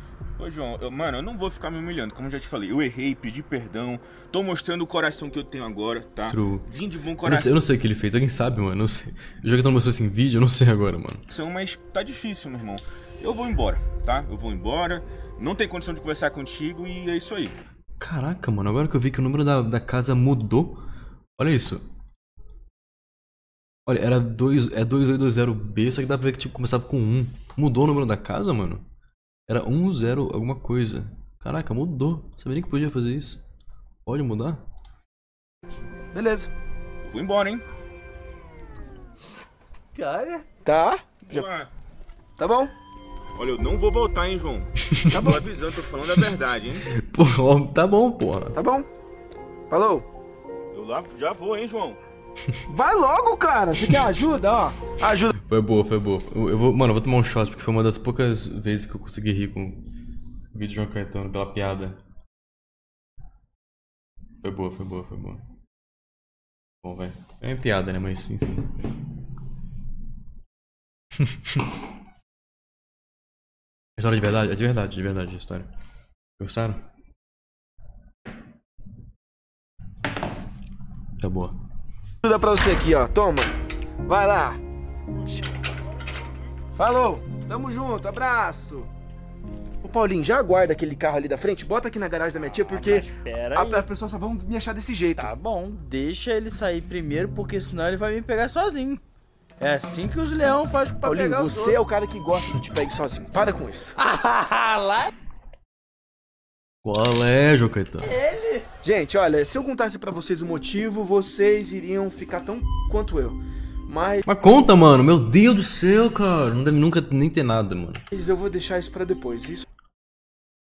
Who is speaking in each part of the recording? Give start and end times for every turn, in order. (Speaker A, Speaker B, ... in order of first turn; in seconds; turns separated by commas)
Speaker A: 0.4-7.6, Speaker B: 6.3-6.7, Speaker B: 7.2-11.2, Speaker A: 11.3-17.6, Speaker B: 18.0-20.8, Speaker B: 21.4-21.8, Speaker B: 23.9-28.8, Speaker B: 29.5-33.4, Speaker B: 34.1-34.6, Speaker C: 36.1-36.5, Speaker A: 37.0-37.6, Speaker D: 40.0-40.5, Speaker C: 40.6-41.5, Speaker A: 41.3-41.7, Speaker C: 42.4-42.7, Speaker A: 43.4-46.9, Speaker B: 44.9-45.3, Speaker C: 45.1-45.5, Speaker B: 46.9-48.6, Speaker C: 48.5-48.9, Speaker C: 49.7-50.1, Speaker A: 50.7-52.0, Speaker C: 52.7-55.3, Speaker B: 55.4-59.8, Speaker B: 60.5-62.0, Speaker B: 64.4-65.4, Speaker B: 66.8-68.7, Speaker B: 71.2-71.6, Speaker B: 74.0-75.7, Speaker B: 76.4-76.8, Speaker B: 81.2-81.5, Speaker C: 82.2-83.5, Speaker C: 84.1-84.6, Speaker C: 86.7-88.9, Speaker C: 89.8-95.3, Speaker D: 92.7-93.9, Speaker D: 95.2-99.0, Speaker D: 99.6-101.8, Speaker C: 101.0-104.0, Speaker D: 104.0-105.1, Speaker B: 106.8-108.1, Speaker D: 108.0-108.7, Speaker C: 108.8-114.3, Speaker B: 114.3-118.0, Speaker C: 118.1-119.6